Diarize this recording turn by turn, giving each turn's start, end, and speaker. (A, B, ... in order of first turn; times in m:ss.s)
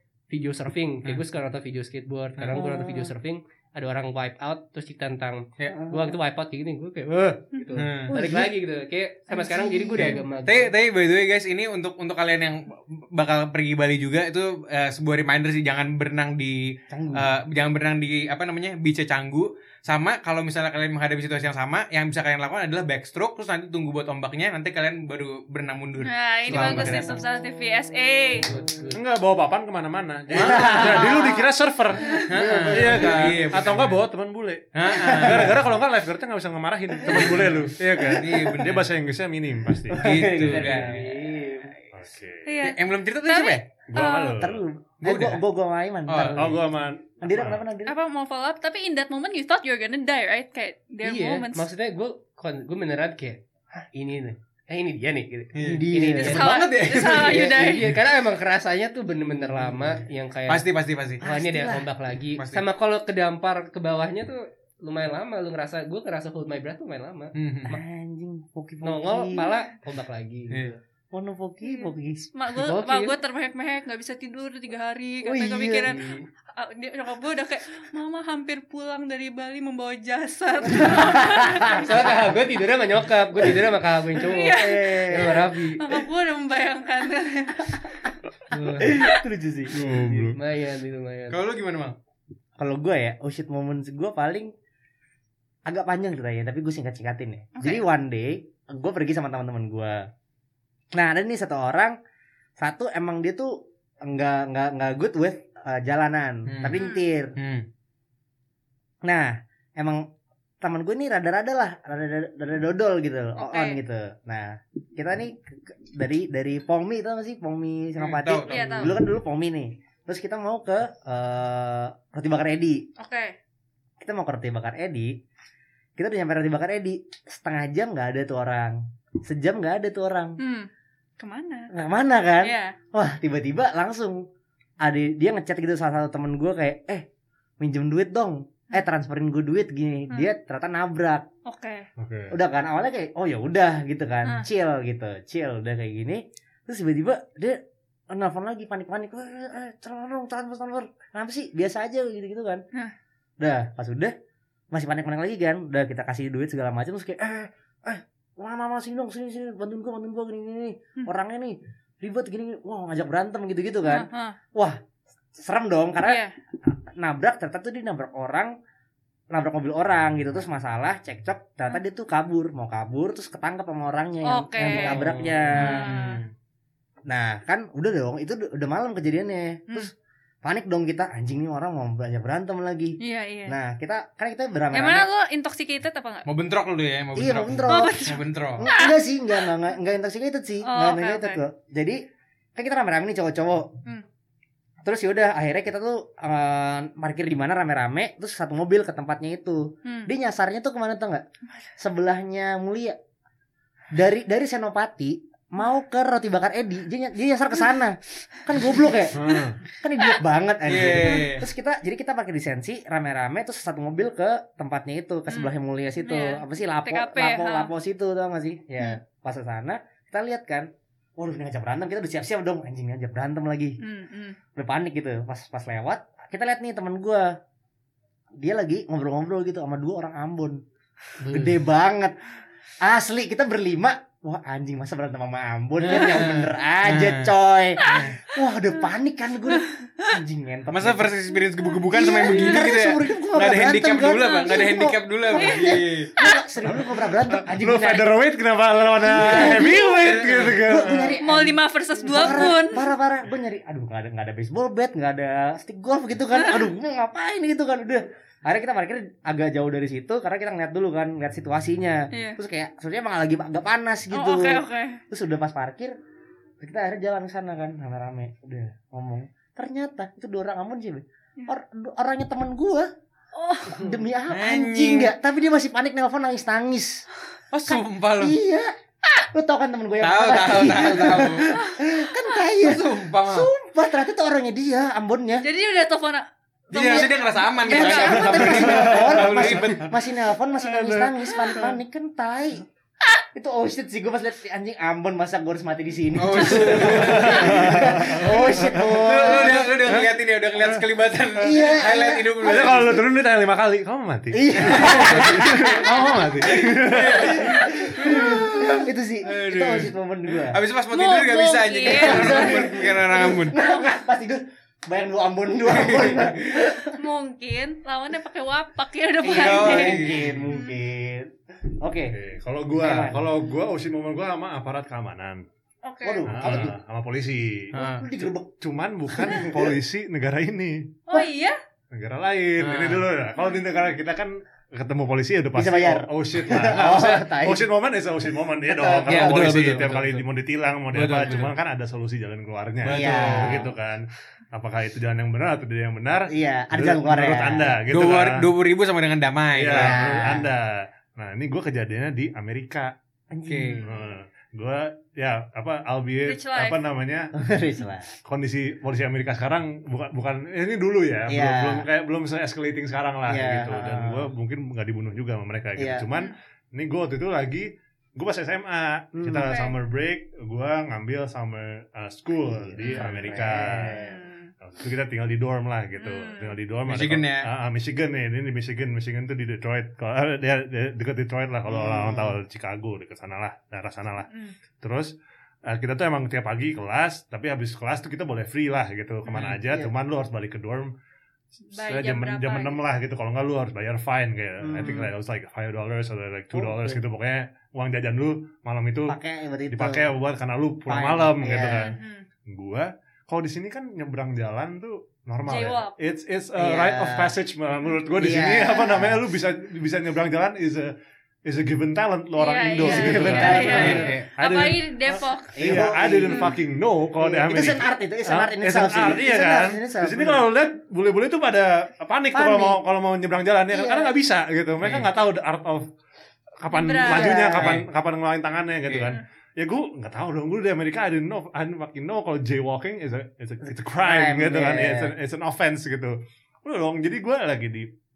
0:00.3-0:10.7 A
0:02.4-0:02.6 B
0:02.5-0:03.1 C
0:05.7-0:06.2 C
0:07.8-0:08.1 B
0:08.1-0:08.5 C
0:09.3-0:10.2 C
0:10.1-0:27.2 B
0:16.9-0:17.3 C
0:26.0-0:28.5 D
0:28.4-0:29.0 A
0:28.9-0:40.8 E
0:30.3-0:31.4 C
0:30.4-0:30.9 B
0:32.0-0:32.3 D
0:32.2-0:34.0 B
0:32.3-0:33.5 C
0:34.7-0:35.6 B
0:34.9-0:35.5 C
0:36.9-0:37.5 C
0:37.1-0:38.9 B
0:38.0-0:38.7 C
0:39.9-0:41.7 C
0:39.9-0:41.2 B
0:41.9-0:42.5 E
0:42.4-0:44.4 D
0:42.6-0:43.6 B
0:43.9-0:44.6 E
0:44.3-0:46.6 C
0:45.0-0:45.4 B
0:46.1-0:46.4 B
0:46.2-0:47.6 E
0:47.2-0:47.9 C
0:47.8-0:51.6 D
0:51.0-1:00.6 A
0:55.5-0:57.5 B
0:55.6-0:56.6 C
0:56.2-0:57.9 D
1:00.5-1:01.2 B
1:01.2-1:01.9 C
1:01.2-1:07.3 A
1:02.4-1:02.6 B
1:07.3-1:07.8 B
1:07.6-1:09.5 C
1:08.8-1:10.7 A
1:10.5-1:10.8 B
1:11.1-1:12.3 C
1:11.6-1:21.9 D
1:12.6-1:13.2 A
1:15.2-1:15.9 C
1:15.8-1:16.2 A
1:20.6-1:21.9 C
1:21.8-1:25.8 A
1:24.2-1:27.9 D
1:24.3-1:25.4 C
1:28.5-1:29.0 A
1:28.8-1:30.3 C
1:29.0-1:29.2 D
1:29.7-1:30.4 E
1:30.3-1:31.4 A
1:31.3-1:32.0 B
1:32.6-1:34.5 C
1:35.6-1:40.0 C
1:37.6-1:37.8 D
1:40.9-1:41.9 C
1:42.6-1:47.3 C
1:46.5-1:46.8 B
1:46.7-1:47.0 D
1:47.4-1:47.7 B
1:49.0-1:50.0 C
1:50.6-2:02.8 C
1:53.4-1:53.8 D
1:58.0-1:58.9 B
1:58.5-1:58.9 D
2:03.0-2:03.4 D
2:04.0-2:05.2 C
2:06.0-2:10.4 C
2:10.4-2:11.7 D
2:11.7-2:14.2 C
2:12.4-2:12.7 D
2:14.8-2:17.0 C
2:17.6-2:21.3 C
2:21.4-2:21.9 D
2:22.0-2:22.4 E
2:22.3-2:32.6 C
2:33.4-2:34.1 C
2:34.7-2:44.8 C
2:43.8-2:44.4 D
2:45.4-2:48.5 C
2:46.0-2:46.3 D
2:49.3-2:55.9 C
2:54.2-2:56.2 D
2:54.8-2:55.5 A
2:55.5-2:56.3 B
2:57.1-2:59.9 C
3:00.4-3:05.1 C
3:03.0-3:03.5 D
3:04.7-3:06.2 D
3:06.2-3:08.7 B
3:07.1-3:12.0 C
3:07.7-3:09.0 D
3:10.6-3:11.4 D
3:12.6-3:13.7 C
3:14.8-3:21.2 C
3:19.8-3:20.1 D
3:21.8-3:23.0 C
3:23.9-3:43.8 C
3:29.2-3:29.5 B
3:29.2-3:29.6 E
3:30.6-3:31.4 B
3:31.0-3:31.3 D
3:35.3-3:37.7 D
3:43.8-3:44.4 D
3:44.6-3:47.4 C
3:48.4-3:50.6 C
3:51.2-3:51.6 A
3:51.3-3:52.1 C
3:52.8-4:01.1 C
3:55.8-3:57.3 B
3:55.9-3:56.2 D
3:57.9-3:58.1 B
4:00.7-4:06.1 B
4:01.9-4:08.1 C
4:02.2-4:02.6 D
4:04.2-4:04.7 D
4:05.3-4:06.4 D
4:07.5-4:11.2 E
4:09.0-4:25.9 C
4:09.4-4:09.8 D
4:10.0-4:10.6 B
4:11.2-4:12.9 D
4:16.4-4:16.6 D
4:22.1-4:22.4 D
4:24.1-4:25.0 D
4:26.6-4:32.9 C
4:33.3-4:34.0 D
4:33.7-4:37.0 C
4:34.3-4:35.1 B
4:37.5-4:38.4 B
4:38.2-4:38.7 C
4:39.3-4:45.5 C
4:40.0-4:41.5 B
4:41.5-4:41.8 D
4:42.6-4:43.5 B
4:45.4-4:48.9 D
4:46.7-4:47.1 C
4:46.7-4:49.9 B
4:47.6-4:52.6 C
4:48.4-4:49.7 E
4:50.6-4:51.7 E
4:53.3-4:59.8 C
4:56.1-5:03.0 B
4:56.3-4:57.0 D
4:57.0-5:00.8 E
5:01.4-5:03.0 C
5:02.4-5:07.5 E
5:04.3-5:06.5 C
5:04.6-5:05.5 B
5:06.5-5:13.6 B
5:07.1-5:10.6 C
5:10.9-5:12.8 D
5:11.9-5:17.0 C
5:13.5-5:13.9 D
5:15.7-5:16.4 B
5:16.9-5:20.6 D
5:19.2-5:22.2 C
5:19.2-5:20.3 B
5:22.1-5:25.4 E
5:22.8-5:23.3 C
5:25.8-5:26.2 D
5:26.0-5:26.7 C
5:26.2-5:27.8 E
5:26.4-5:26.7 B
5:27.7-5:28.1 B
5:27.8-5:28.5 C
5:28.6-5:31.0 E
5:29.1-5:29.7 C
5:31.1-5:31.6 D
5:31.9-5:48.5 E
5:32.6-5:33.0 B
5:35.5-5:37.6 C
5:38.7-5:39.9 C
5:39.1-5:40.2 B
5:40.9-5:41.5 B
5:42.8-5:43.7 B
5:42.8-5:43.7 C
5:46.3-5:47.8 C
5:47.9-5:50.4 B
5:49.5-5:52.9 E
5:49.7-5:50.5 C
5:53.3-5:53.8 C
5:53.4-5:53.8 B
5:53.6-5:54.0 D
5:53.8-5:57.3 E
5:56.2-5:56.8 D
5:57.4-5:58.1 C
5:58.2-6:14.0 E
6:01.3-6:01.9 C
6:03.3-6:04.2 C
6:05.8-6:06.0 C
6:09.2-6:09.5 C
6:09.4-6:09.7 D
6:12.5-6:14.2 C
6:13.9-6:14.5 D
6:14.6-6:24.3 E
6:16.0-6:16.6 D
6:16.8-6:17.5 B
6:21.7-6:22.4 C
6:24.8-6:25.1 E
6:25.7-6:30.9 E
6:29.3-6:29.6 B
6:31.7-6:39.2 E
6:31.7-6:32.8 D
6:34.6-6:35.1 C
6:36.5-6:37.0 C
6:39.1-6:40.1 C
6:39.7-6:42.0 E
6:40.9-6:41.9 C
6:41.6-6:42.2 D
6:42.5-6:50.9 E
6:45.4-6:46.0 D
6:46.6-6:47.4 C
6:48.1-6:49.2 C
6:51.4-7:05.8 E
6:52.4-6:56.5 D
6:52.8-6:54.1 C
6:53.4-6:54.3 B
6:55.6-6:56.5 C
6:57.2-7:00.4 C
7:02.3-7:02.8 C
7:03.7-7:04.1 C
7:04.8-7:05.1 B
7:06.6-7:17.9 E
7:06.7-7:07.4 D
7:07.0-7:07.8 C
7:07.6-7:07.8 B
7:08.9-7:09.1 B
7:13.9-7:15.1 C